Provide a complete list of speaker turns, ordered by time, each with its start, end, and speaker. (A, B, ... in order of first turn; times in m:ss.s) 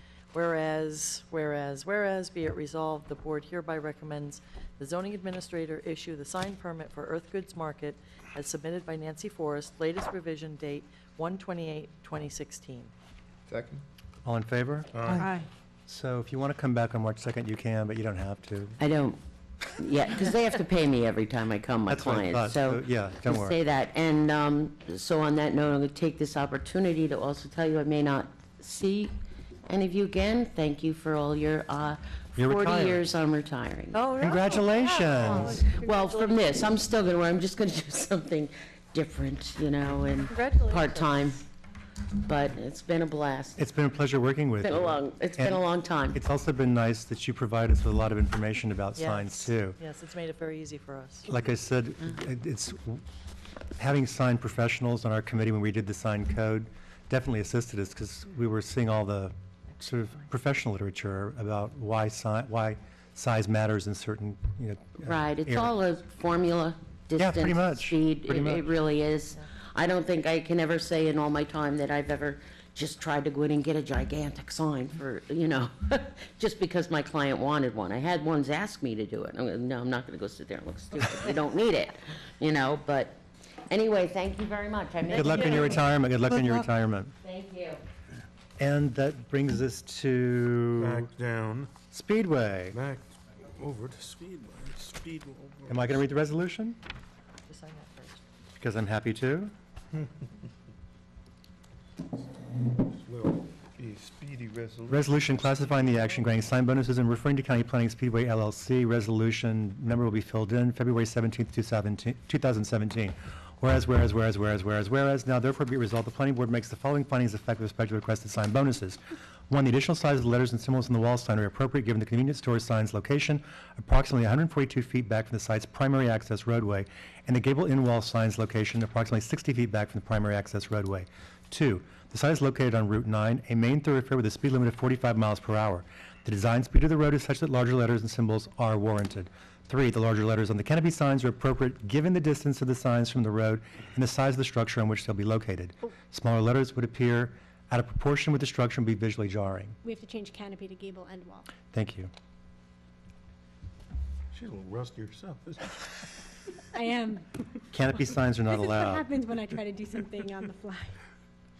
0:00.3-0:12.9 A
0:13.5-0:13.8 B
0:14.2-0:15.3 C
0:14.9-0:15.3 B
0:15.2-0:15.4 A
0:15.9-0:18.8 C
0:18.8-0:19.2 D
0:19.7-0:29.1 D
0:21.9-0:23.6 C
0:29.7-0:34.0 D
0:32.4-0:33.0 C
0:33.9-0:36.6 A
0:34.2-0:35.6 C
0:35.1-0:41.4 D
0:40.3-0:41.3 A
0:42.1-0:43.7 D
0:43.6-0:49.8 C
0:44.6-0:46.2 D
0:49.0-0:51.3 A
0:51.3-0:53.0 C
0:53.8-1:05.7 C
1:05.0-1:25.8 D
1:07.2-1:08.7 C
1:25.1-1:27.1 C
1:27.2-1:27.8 D
1:28.6-1:31.1 C
1:30.8-1:31.7 B
1:31.9-1:32.8 C
1:32.7-1:36.0 B
1:35.7-1:36.8 C
1:37.5-1:38.2 A
1:38.6-1:39.5 C
1:42.8-1:45.1 B
1:44.9-1:59.0 C
1:59.5-2:29.8 C
2:29.8-2:31.5 E
2:31.7-2:32.1 C
2:34.3-2:36.1 B
2:36.7-2:37.6 E
2:37.7-2:39.0 C
2:38.5-2:41.0 E